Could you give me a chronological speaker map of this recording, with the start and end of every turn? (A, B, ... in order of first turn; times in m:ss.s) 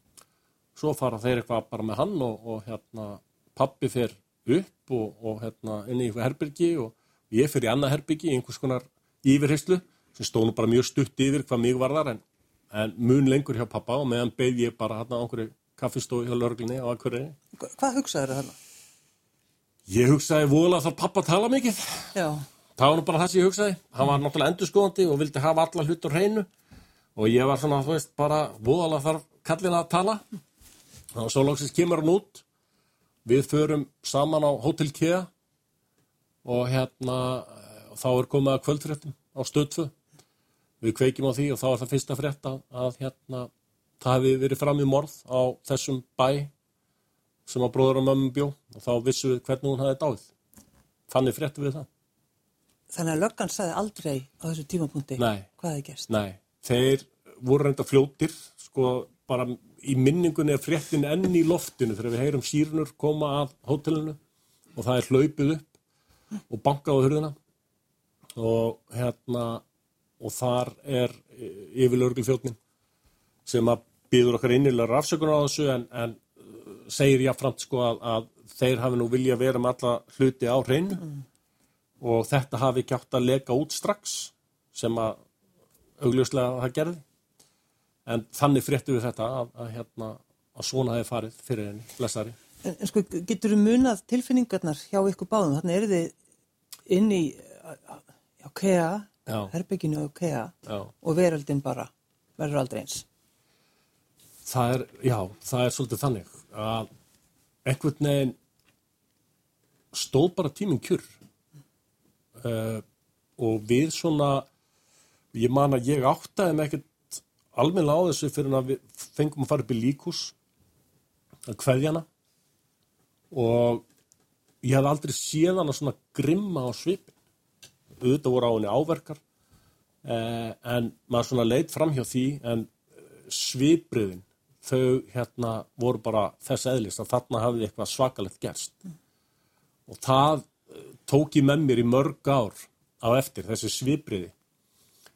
0:00.8-0:17.4 A
0:17.6-0:18.6 B
0:19.9-0:22.1 A
0:22.1-0:22.4 B
0:22.8-0:26.5 A
0:27.1-0:30.2 A
0:31.1-0:32.4 A
0:33.2-0:35.3 A
0:36.4-0:39.9 A
0:40.8-0:46.5 A
0:47.5-0:50.3 A
0:51.1-0:51.9 A
0:52.9-0:56.1 B
0:55.2-0:55.5 A
0:56.1-1:04.2 A
1:04.8-1:05.7 A
1:06.5-1:07.4 A
1:08.4-1:09.6 A
1:10.2-1:12.6 A
1:13.5-1:21.1 A
1:22.0-1:25.2 A
1:26.0-1:27.0 A
1:28.0-1:32.4 A
1:32.6-1:36.1 B
1:36.9-1:43.0 B
1:39.3-1:39.5 A
1:44.5-1:46.9 A
1:47.6-1:48.4 A
1:49.9-1:51.1 A
1:52.4-1:52.8 A
1:53.4-1:54.5 A
1:55.3-2:00.4 A
2:01.5-2:02.0 A
2:03.3-2:03.8 A
2:04.6-2:07.1 A
2:08.0-2:09.2 A
2:10.0-2:12.7 A
2:13.2-2:18.8 A
2:19.9-2:24.3 A